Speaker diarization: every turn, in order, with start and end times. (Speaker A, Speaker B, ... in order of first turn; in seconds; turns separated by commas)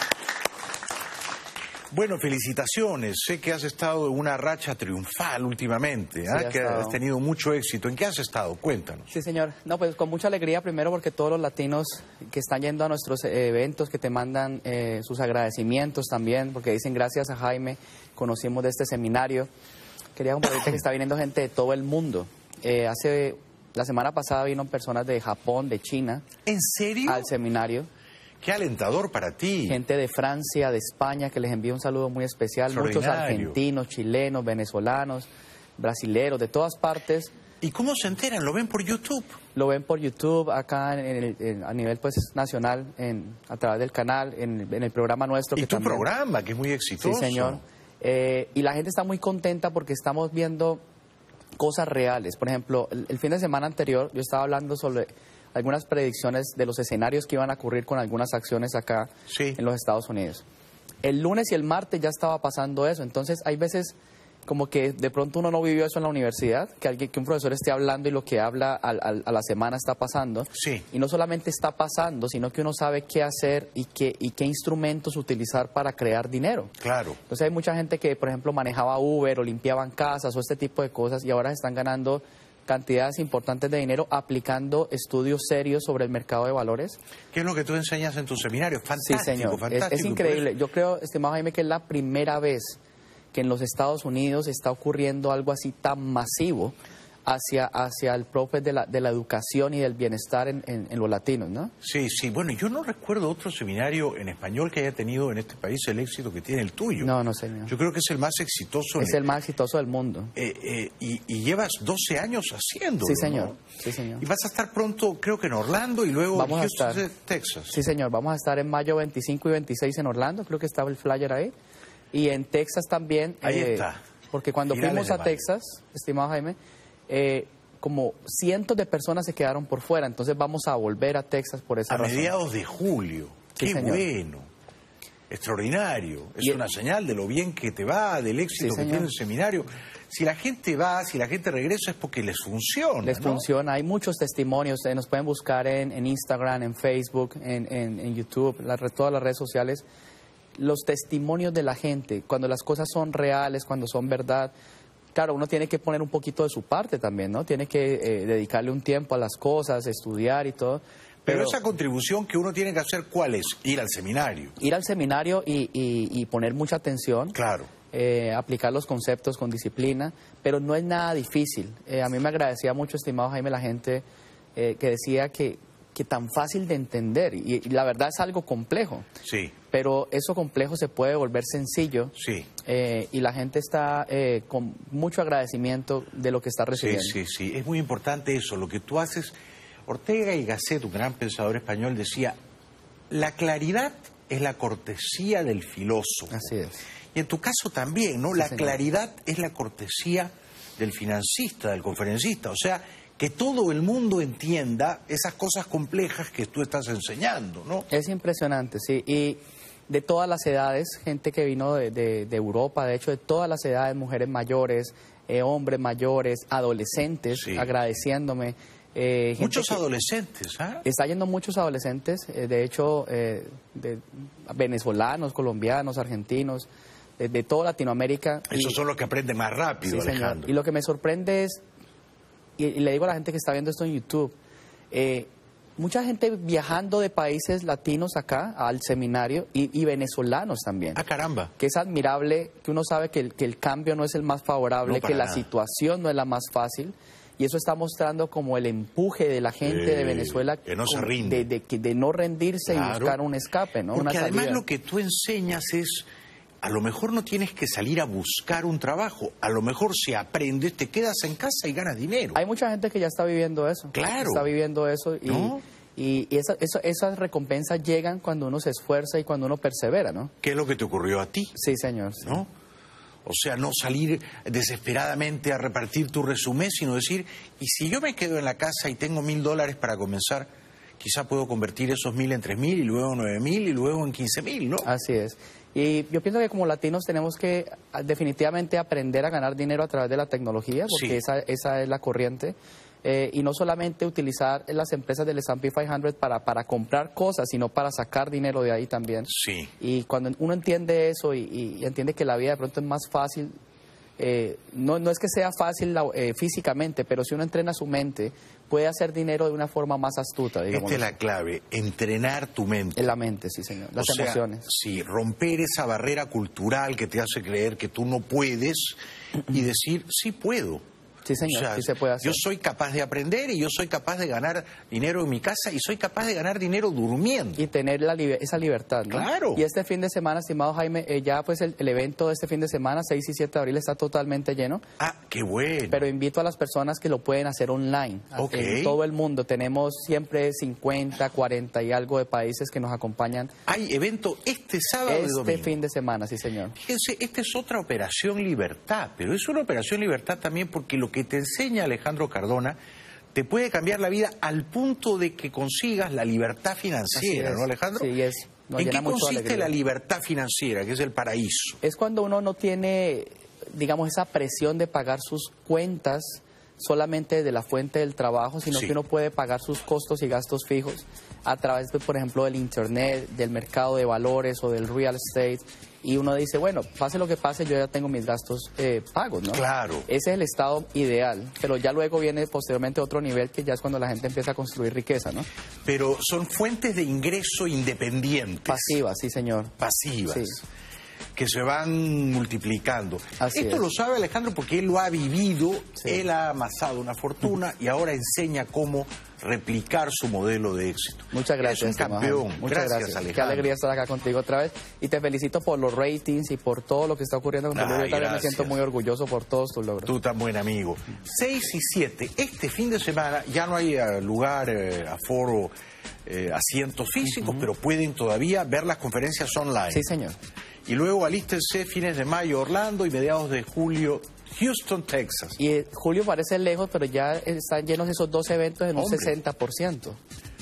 Speaker A: 1.9-9.1, Speaker B: 6.3-7.0, Speaker B: 9.1-19.5, Speaker B: 20.1-26.2, Speaker A: 26.4-27.3, Speaker B: 27.1-27.9, Speaker A: 28.4-29.8, Speaker B: 29.7-37.3, Speaker A: 32.7-33.6, Speaker A: 37.6-39.4, Speaker B: 39.5-46.0, Speaker A: 45.5-47.6, Speaker B: 47.0-50.8, Speaker B: 51.6-60.4, Speaker A: 59.3-59.6, Speaker B: 61.0-63.9, Speaker B: 64.5-76.7, Speaker A: 70.5-70.8, Speaker A: 76.8-77.2, Speaker B: 77.3-87.0, Speaker A: 87.3-90.5, Speaker B: 89.0-92.8, Speaker B: 93.3-96.7, Speaker B: 97.2-101.7, Speaker A: 101.8-107.1, Speaker B: 107.0-107.7, Speaker A: 107.7-109.2, Speaker B: 109.0-110.3, Speaker A: 110.3-113.6, Speaker B: 113.0-114.2, Speaker A: 114.2-117.8, Speaker B: 116.3-117.0, Speaker B: 117.7-121.5, Speaker B: 122.1-126.5, Speaker A: 123.4-124.0, Speaker A: 124.7-125.4, Speaker B: 127.1-132.3, Speaker A: 131.9-134.5, Speaker B: 133.6-134.0, Speaker A: 135.3-143.4, Speaker B: 138.6-139.1, Speaker B: 143.0-149.8, Speaker B: 150.6-154.5, Speaker B: 155.1-161.6, Speaker A: 161.2-164.5, Speaker B: 164.6-167.3, Speaker A: 167.3-167.7, Speaker B: 167.9-174.0, Speaker B: 174.6-179.1, Speaker A: 179.2-179.6, Speaker B: 179.7-187.2, Speaker A: 182.2-182.5, Speaker A: 186.7-189.3, Speaker A: 189.8-192.4, Speaker A: 193.1-196.5, Speaker B: 196.3-196.8, Speaker A: 197.1-207.9, Speaker B: 198.4-198.8, Speaker B: 207.9-219.8, Speaker A: 217.3-217.7, Speaker A: 219.4-220.8, Speaker B: 220.8-228.8, Speaker A: 228.5-230.5, Speaker B: 229.8-231.6, Speaker B: 232.6-234.3, Speaker B: 234.9-241.0, Speaker A: 240.9-241.5, Speaker B: 241.6-254.6, Speaker A: 244.8-245.4, Speaker A: 249.6-251.5, Speaker A: 252.7-253.2, Speaker A: 253.9-256.1, Speaker A: 256.6-262.4, Speaker B: 262.3-270.3, Speaker A: 263.9-264.5, Speaker A: 265.2-265.6, Speaker A: 270.4-271.6, Speaker B: 271.5-272.4, Speaker A: 272.2-272.5, Speaker A: 273.2-284.9, Speaker B: 284.8-303.5, Speaker A: 290.9-291.2, Speaker A: 299.3-299.7, Speaker B: 304.2-311.1, Speaker A: 310.7-313.1, Speaker B: 312.9-314.6, Speaker A: 314.0-319.0, Speaker A: 319.5-320.8, Speaker B: 321.2-322.4, Speaker A: 321.5-327.6, Speaker B: 327.6-334.8, Speaker A: 329.1-329.6, Speaker A: 335.0-336.1, Speaker B: 335.9-343.5, Speaker A: 338.3-339.0, Speaker A: 343.7-345.8, Speaker B: 345.1-346.8, Speaker A: 346.7-352.8, Speaker A: 353.3-358.1, Speaker B: 357.1-359.7, Speaker A: 358.8-361.8, Speaker B: 361.8-385.5, Speaker A: 368.7-368.9, Speaker A: 379.5-380.1, Speaker A: 385.8-389.0, Speaker B: 388.7-389.7, Speaker A: 389.8-390.6, Speaker B: 390.3-390.6, Speaker A: 391.3-403.7, Speaker B: 393.4-393.9, Speaker B: 401.3-410.1, Speaker A: 407.7-408.8, Speaker A: 410.0-415.7, Speaker A: 416.2-420.1, Speaker B: 419.9-420.4, Speaker A: 420.9-425.6, Speaker B: 425.6-430.2, Speaker A: 428.9-429.3